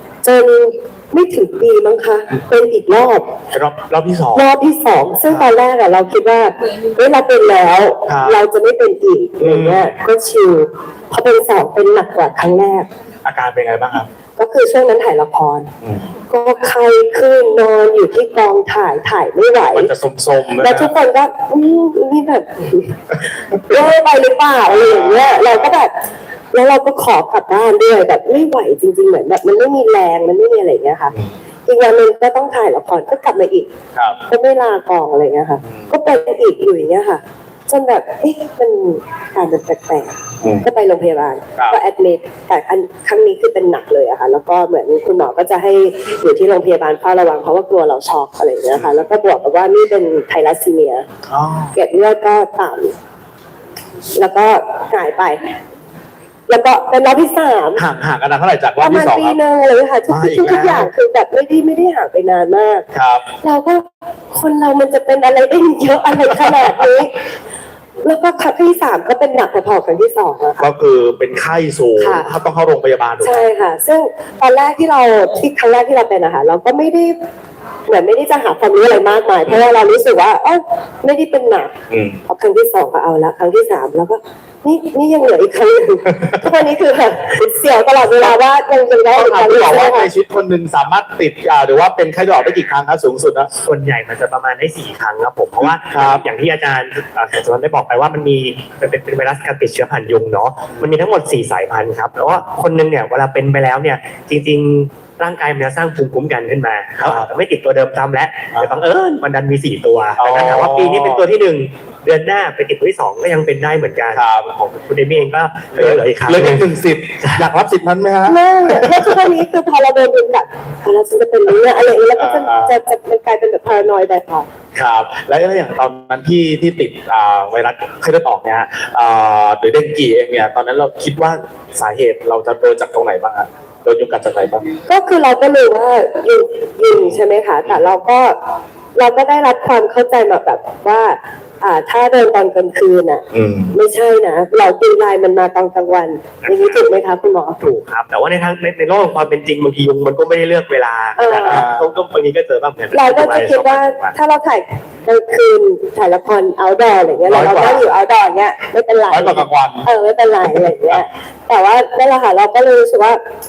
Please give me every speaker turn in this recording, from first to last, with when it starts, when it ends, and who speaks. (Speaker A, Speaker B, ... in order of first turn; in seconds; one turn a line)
Speaker A: 0.2-3.3
Speaker B: 3.5-4.5
Speaker A: 4.3-12.9
Speaker B: 8.1-8.4
Speaker B: 9.4-9.9
Speaker B: 13.2-14.1
Speaker A: 14.4-15.7
Speaker A: 16.3-19.9
Speaker B: 19.6-20.9
Speaker A: 20.6-25.9
Speaker B: 24.6-25.8
Speaker A: 26.5-31.1
Speaker A: 31.7-33.7
Speaker A: 34.3-51.1
Speaker B: 35.6-35.9
Speaker B: 51.3-51.8
Speaker A: 51.7-52.9
Speaker A: 54.1-55.4
Speaker A: 56.5-57.8
Speaker B: 57.8-59.4
Speaker A: 58.8-62.9
Speaker B: 60.1-60.9
Speaker B: 62.9-63.2
Speaker A: 63.4-67.2
Speaker A: 68.0-70.7
Speaker B: 70.6-73.5
Speaker A: 72.0-72.3
Speaker A: 73.2-77.2
Speaker A: 77.9-81.7
Speaker B: 81.9-82.2
Speaker A: 82.3-90.1
Speaker B: 89.1-93.5
Speaker C: 93.6-116.7
Speaker B: 95.6-96.2
Speaker B: 107.0-107.3
Speaker B: 110.2-111.2
Speaker B: 114.1-114.5
Speaker B: 115.7-119.3
Speaker C: 117.2-117.5
Speaker A: 118.3-124.5
Speaker B: 122.2-122.7
Speaker B: 124.8-134.7
Speaker A: 134.9-138.4
Speaker A: 139.0-147.6
Speaker B: 143.3-143.8
Speaker C: 146.4-146.8
Speaker C: 147.6-154.2
Speaker A: 151.2-151.7
Speaker B: 151.4-151.9
Speaker A: 152.9-163.2
Speaker B: 157.3-157.9
Speaker B: 159.1-159.9